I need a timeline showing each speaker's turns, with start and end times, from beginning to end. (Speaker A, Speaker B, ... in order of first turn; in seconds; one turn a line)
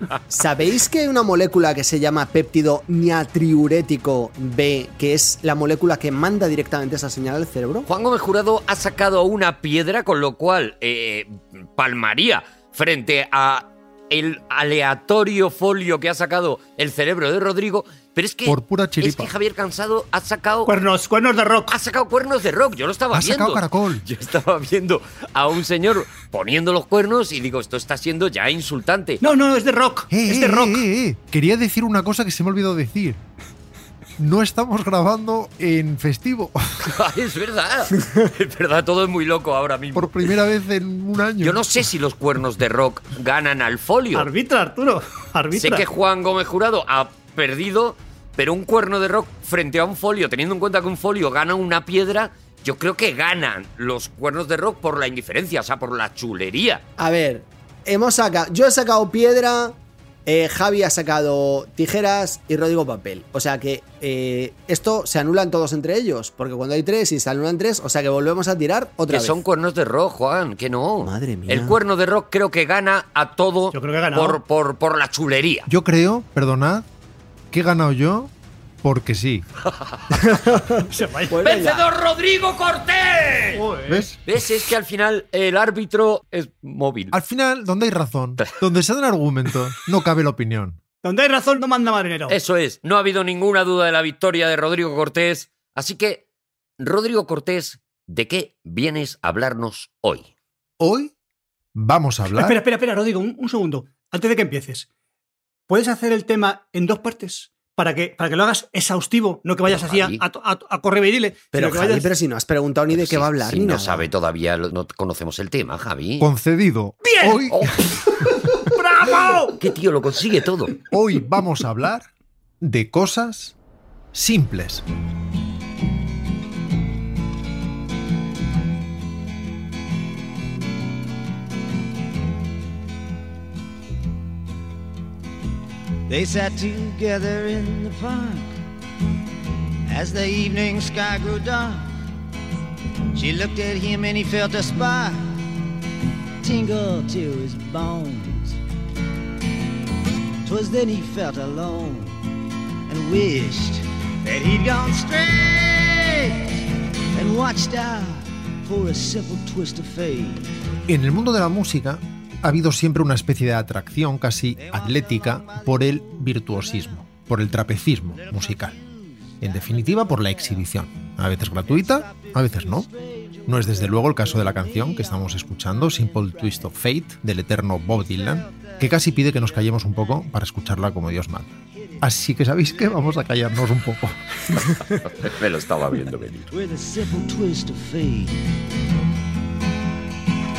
Speaker A: 0.3-7.9
Speaker B: 7.9-20.7
Speaker C: 18.4-19.3
Speaker D: 20.7-21.7
Speaker B: 21.7-29.2
Speaker C: 23.1-24.1
Speaker D: 29.2-30.8
Speaker C: 30.1-33.2
Speaker C: 34.2-36.9
Speaker B: 36.8-40.3
Speaker C: 39.9-41.6
Speaker B: 41.4-44.3
Speaker D: 44.1-45.9
Speaker B: 45.5-56.8
Speaker A: 57.0-69.4
Speaker B: 69.1-75.7
Speaker A: 71.0-71.8
Speaker D: 73.7-74.4
Speaker C: 75.7-76.9
Speaker C: 77.5-78.3
Speaker C: 78.8-79.5
Speaker B: 79.7-80.0
Speaker D: 80.9-81.4
Speaker A: 81.3-81.9
Speaker B: 81.4-83.6
Speaker D: 83.5-84.1
Speaker C: 83.9-84.4
Speaker B: 84.3-87.2
Speaker C: 87.1-90.8
Speaker D: 91.0-92.4
Speaker B: 92.3-96.2
Speaker B: 96.8-100.3
Speaker C: 100.8-101.1
Speaker C: 101.8-102.6
Speaker D: 102.3-104.9
Speaker D: 105.7-112.1
Speaker B: 109.7-110.2
Speaker A: 111.5-114.1
Speaker B: 112.9-116.3
Speaker C: 116.2-117.9
Speaker D: 117.0-117.5
Speaker D: 118.1-119.6
Speaker B: 119.6-120.8
Speaker C: 120.9-122.1
Speaker C: 122.6-123.6
Speaker C: 124.1-124.8
Speaker E: 136.1-138.5
Speaker E: 139.9-141.8
Speaker E: 143.2-145.2
Speaker E: 146.4-148.6
Speaker E: 150.4-152.2
Speaker E: 152.9-160.5
Speaker C: 160.9-168.8
Speaker E: 164.6-167.1
Speaker E: 168.1-170.7
Speaker C: 169.4-172.9
Speaker E: 171.6-176.8
Speaker C: 173.5-184.7
Speaker E: 178.1-180.0
Speaker E: 182.6-183.2
Speaker B: 184.7-186.5
Speaker E: 186.5-188.4